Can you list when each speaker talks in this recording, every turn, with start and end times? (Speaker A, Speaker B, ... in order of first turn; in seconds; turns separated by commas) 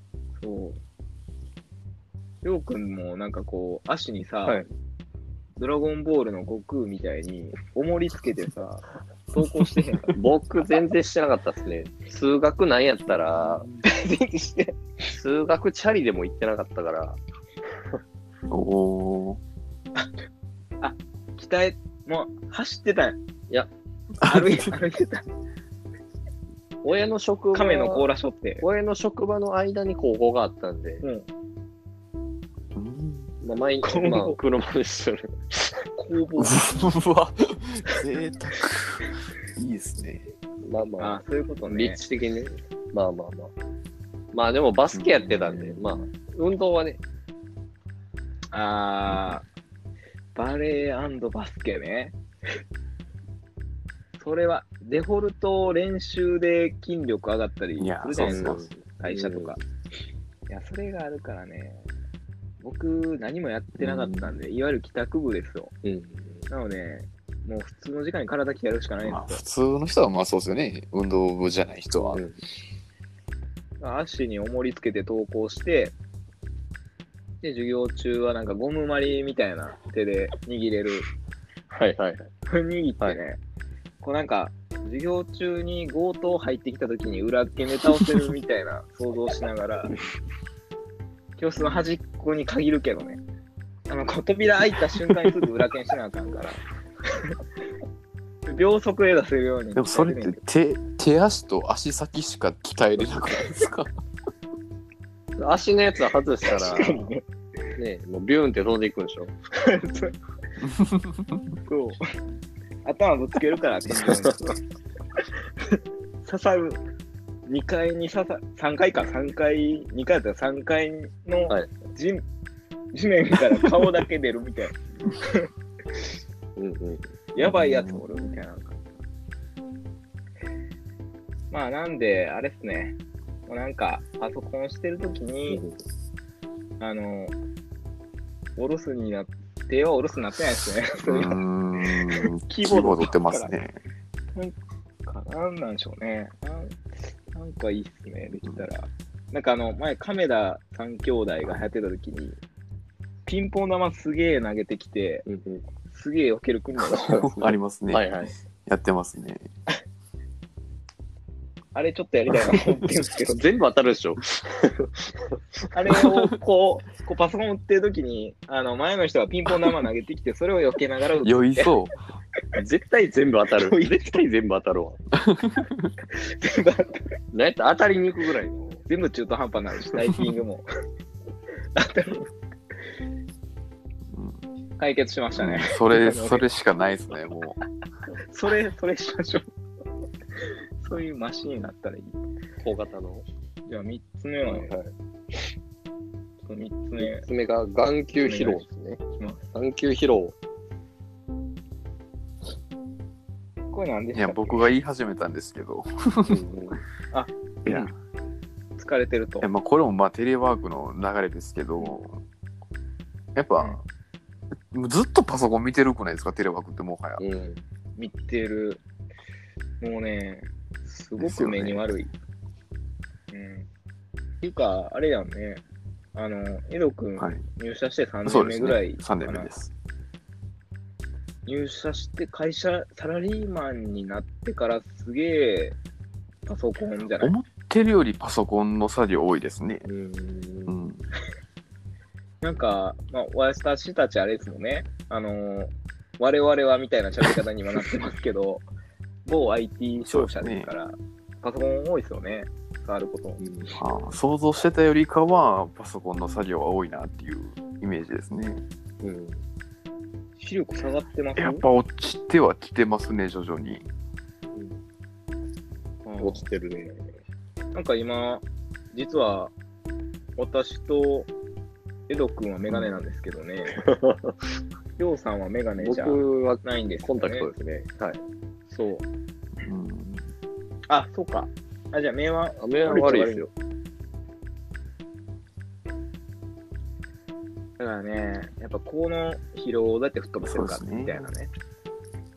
Speaker A: 0.4-0.8, Speaker A: 2.4-4.6, Speaker A: 5.6-10.2, Speaker B: 10.1-13.7, Speaker C: 13.1-13.8, Speaker A: 13.8-14.8, Speaker B: 15.1-17.2, Speaker C: 18.5-19.4, Speaker A: 20.8-23.2, Speaker C: 24.2-24.7, Speaker A: 24.2-25.2, Speaker B: 26.8-28.1, Speaker A: 27.5-28.6, Speaker B: 28.6-31.0, Speaker A: 31.0-31.3, Speaker C: 32.7-33.4, Speaker B: 33.4-35.8, Speaker A: 33.8-34.4, Speaker A: 36.0-36.6, Speaker C: 36.4-40.3, Speaker B: 40.6-43.5, Speaker A: 41.0-42.0, Speaker B: 44.3-47.0, Speaker C: 44.9-46.0, Speaker A: 48.5-49.4, Speaker C: 49.1-49.4, Speaker A: 50.3-52.1, Speaker A: 54.2-59.6, Speaker C: 57.8-58.6, Speaker B: 58.2-59.5, Speaker A: 60.5-61.9, Speaker A: 62.6-65.7, Speaker B: 63.8-64.3, Speaker B: 65.8-66.5, Speaker A: 66.5-69.4, Speaker C: 69.0-72.2, Speaker B: 72.0-72.4, Speaker A: 73.8-75.9, Speaker A: 77.4-81.0, Speaker B: 81.7-82.3, Speaker A: 82.5-83.4, Speaker A: 84.0-89.9, Speaker A: 91.4-93.2, Speaker A: 93.9-96.6, Speaker A: 98.5-100.4, Speaker C: 99.7-103.9, Speaker B: 105.4-107.1, Speaker A: 106.5-107.2, Speaker B: 107.8-109.3, Speaker A: 109.5-110.1, Speaker C: 110.6-111.4, Speaker A: 111.6-112.0, Speaker A: 112.8-114.4, Speaker B: 113.9-114.5, Speaker A: 115.2-116.8, Speaker A: 117.5-122.2, Speaker A: 122.9-125.5, Speaker B: 126.6-127.1, Speaker A: 127.3-128.8, Speaker C: 127.4-128.0, Speaker A: 131.5-135.6, Speaker B: 135.5-135.8, Speaker A: 136.8-137.3, Speaker A: 138.6-143.5, Speaker C: 141.1-143.8, Speaker A: 145.1-146.8, Speaker A: 147.3-152.4, Speaker A: 153.2-155.2, Speaker B: 155.2-155.6, Speaker A: 155.9-157.4, Speaker B: 156.9-158.3, Speaker C: 157.0-158.1, Speaker C: 158.6-159.5, Speaker A: 161.7-163.4, Speaker B: 163.3-165.3, Speaker A: 165.7-171.7, Speaker C: 165.9-166.3, Speaker C: 171.2-171.9, Speaker B: 172.5-175.0, Speaker A: 173.6-174.1, Speaker C: 175.1-175.9, Speaker A: 176.1-177.1, Speaker B: 177.3-178.8, Speaker A: 178.9-180.7, Speaker A: 181.7-182.3, Speaker C: 184.1-184.4, Speaker A: 184.8-186.5, Speaker C: 185.3-187.6, Speaker A: 188.2-189.5, Speaker A: 190.4-192.2, Speaker B: 192.6-193.2, Speaker A: 193.7-194.7, Speaker B: 194.4-194.9, Speaker A: 196.4-197.2, Speaker B: 197.0-199.0, Speaker A: 198.2-199.4, Speaker B: 199.5-200.3, Speaker A: 203.7-204.7, Speaker C: 204.1-206.4, Speaker B: 206.3-206.8, Speaker A: 207.1-207.8, Speaker C: 207.6-207.9, Speaker A: 208.8-209.5, Speaker C: 209.4-212.2, Speaker C: 213.3-213.8, Speaker C: 214.7-217.2, Speaker B: 217.2-217.6, Speaker A: 218.0-218.8, Speaker A: 219.8-222.1, Speaker C: 221.2-221.9, Speaker A: 223.3-223.7, Speaker A: 224.4-225.6, Speaker A: 226.1-229.5, Speaker C: 228.2-229.7, Speaker A: 231.4-235.8, Speaker A: 236.4-237.3, Speaker C: 237.2-239.8, Speaker B: 239.8-240.8, Speaker C: 240.7-241.0, Speaker A: 242.4-248.7, Speaker A: 249.2-253.4, Speaker C: 250.0-250.7, Speaker B: 253.4-253.8, Speaker C: 253.8-258.6, Speaker B: 259.0-259.4, Speaker A: 260.4-261.6, Speaker C: 261.4-263.9, Speaker B: 264.5-264.8, Speaker A: 266.1-266.4, Speaker B: 266.2-267.1, Speaker A: 267.7-269.5, Speaker A: 270.4-271.3, Speaker A: 272.1-273.8, Speaker B: 273.7-274.4, Speaker A: 275.0-277.5, Speaker B: 275.8-278.2, Speaker A: 278.7-279.1, Speaker C: 279.6-280.2, Speaker A: 280.9-283.4, Speaker B: 282.6-283.5, Speaker A: 287.8-291.5, Speaker C: 290.4-291.3